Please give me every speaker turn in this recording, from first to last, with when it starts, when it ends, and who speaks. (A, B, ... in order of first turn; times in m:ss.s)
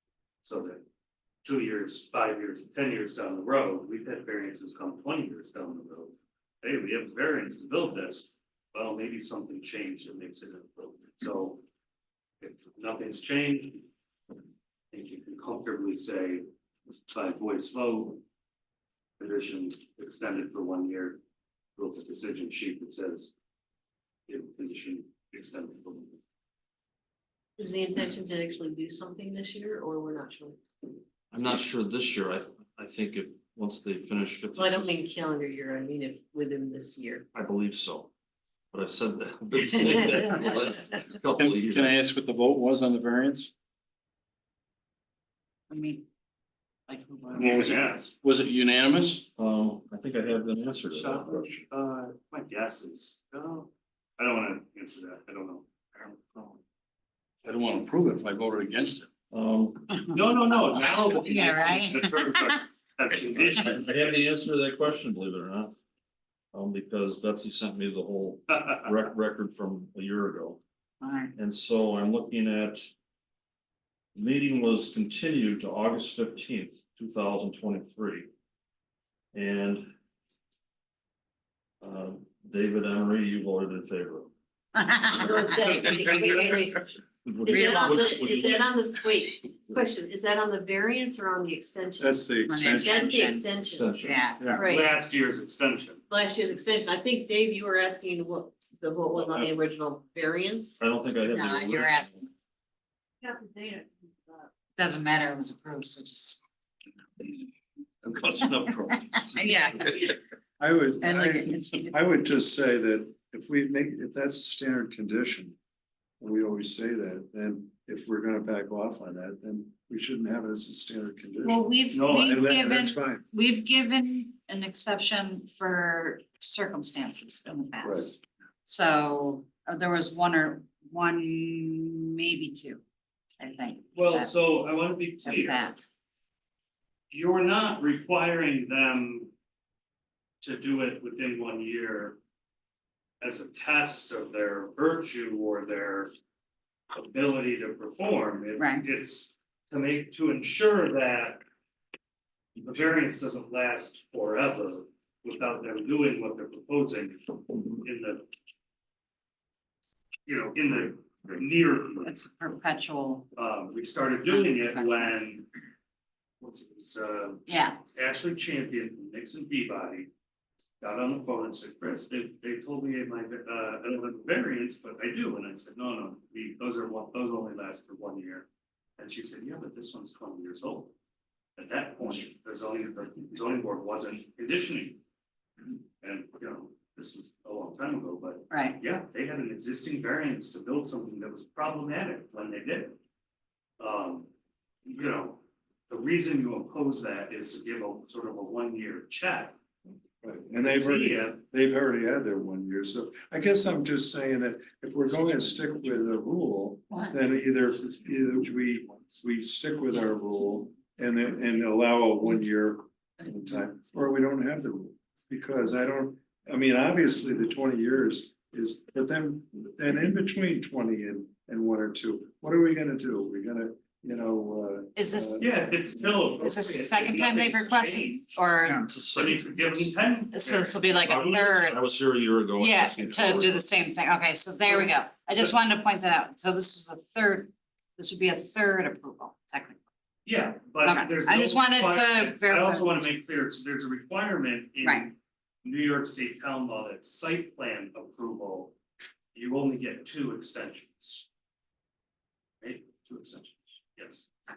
0:00.4-0:00.8 A
0:01.4-0:11.6 A
0:12.4-0:13.9 A
0:14.9-0:16.4 A
0:17.1-0:18.2 A
0:19.2-0:21.2 A
0:21.8-0:23.3 A
0:24.3-0:26.2 A
0:27.6-0:30.6 B
0:31.3-0:35.0 C
0:34.5-0:37.2 B
0:37.3-0:38.1 C
0:38.7-0:42.0 C
0:41.2-0:43.5 D
0:45.7-0:46.0 E
0:46.9-0:47.8 E
0:47.3-0:48.1 A
0:47.4-0:49.2 D
0:49.4-0:51.6 C
0:50.9-0:56.5 A
0:57.4-0:59.1 D
0:59.3-1:00.0 C
1:00.1-1:03.9 A
1:00.7-1:02.6 E
1:03.4-1:05.8 C
1:06.5-1:10.6 C
1:11.0-1:11.3 E
1:11.4-1:12.9 C
1:14.1-1:18.3 C
1:19.3-1:19.9 C
1:21.8-1:24.3 C
1:24.8-1:26.0 E
1:25.1-1:26.8 B
1:27.2-1:28.9 C
1:27.4-1:34.9 B
1:27.5-1:28.4 E
1:32.0-1:33.3 F
1:32.4-1:34.6 E
1:33.6-1:34.3 C
1:34.6-1:36.0 A
1:36.1-1:40.9 B
1:39.1-1:39.5 C
1:40.8-1:42.2 C
1:41.3-1:42.2 E
1:43.2-1:44.4 B
1:44.8-1:46.4 E
1:48.9-1:50.1 E
1:50.6-1:55.6 F
1:51.0-1:51.9 E
1:56.2-2:03.2 F
2:01.4-2:12.8 E
2:01.9-2:02.4 A
2:07.8-2:08.1 F
2:13.4-2:14.4 E
2:13.9-2:15.8 A
2:15.2-2:15.8 E
2:17.1-2:19.3 A
2:20.4-2:22.2 A
2:23.2-2:26.1 A
2:26.9-2:31.4 A
2:28.6-2:28.8 E
2:32.6-2:38.2 A
2:40.2-2:42.1 A
2:42.0-2:43.3 E
2:43.3-2:45.5 A
2:44.2-2:45.1 E
2:46.4-2:50.1 A
2:47.4-2:47.8 E
2:50.8-2:58.5 A
2:59.0-3:00.9 A
3:01.6-3:05.0 A
3:06.0-3:13.0 A
3:08.5-3:08.8 E
3:13.8-3:14.3 A
3:14.8-3:19.6 A
3:20.2-3:46.2 F
3:20.6-3:21.4 A
3:26.9-3:27.2 E
3:45.0-3:45.5 E
3:45.4-3:51.4 A
3:46.4-3:48.9 E
3:48.8-3:50.0 C
3:50.3-3:51.8 E
3:51.0-3:53.7 C
3:52.6-3:59.8 E
4:00.2-4:08.7 A
4:00.8-4:03.1 E
4:04.8-4:05.1 E
4:09.3-4:11.3 A
4:12.6-4:14.3 A